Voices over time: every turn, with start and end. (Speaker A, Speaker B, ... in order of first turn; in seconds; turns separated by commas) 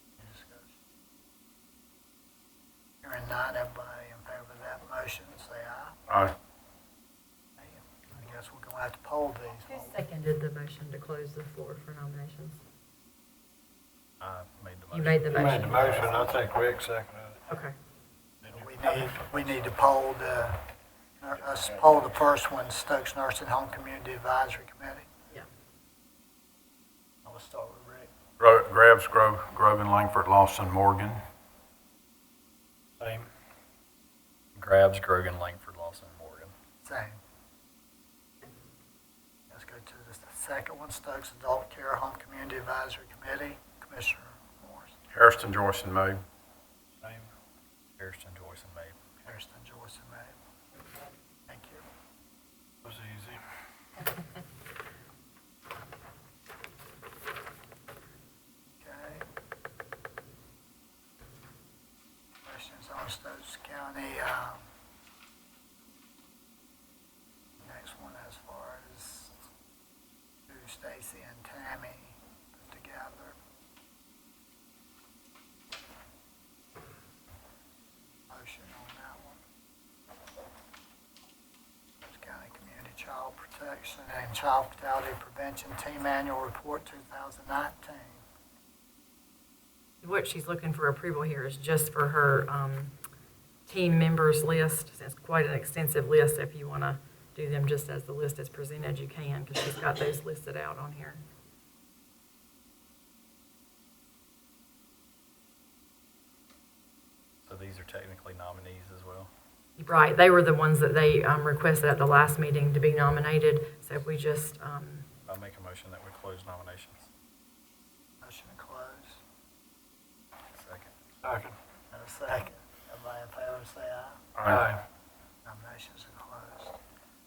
Speaker A: 0.2-0.8, Speaker A: 3.0-6.0, Speaker B: 6.1-6.3, Speaker A: 7.5-10.0, Speaker C: 9.7-12.6, Speaker D: 14.2-15.8, Speaker C: 14.9-16.4, Speaker E: 15.4-17.3, Speaker C: 17.5-17.7, Speaker A: 18.5-20.7, Speaker A: 21.2-25.1, Speaker A: 27.2-28.1, Speaker B: 28.4-31.2, Speaker D: 34.5-36.5, Speaker A: 36.8-37.2, Speaker A: 39.5-45.0, Speaker B: 45.1-46.2, Speaker D: 48.0-49.2, Speaker A: 49.2-50.3, Speaker A: 51.5-51.8, Speaker E: 53.0-53.2, Speaker A: 58.8-59.2, Speaker A: 62.4-64.6, Speaker A: 67.6-69.3, Speaker A: 70.5-73.4, Speaker A: 78.3-79.4, Speaker A: 82.0-88.2, Speaker C: 90.0-92.9, Speaker C: 93.7-101.2, Speaker D: 107.5-109.3, Speaker C: 109.8-115.1, Speaker D: 115.2-117.1, Speaker A: 118.2-119.2, Speaker D: 120.5-120.9, Speaker A: 121.9-124.2, Speaker B: 124.3-124.8, Speaker A: 125.4-126.8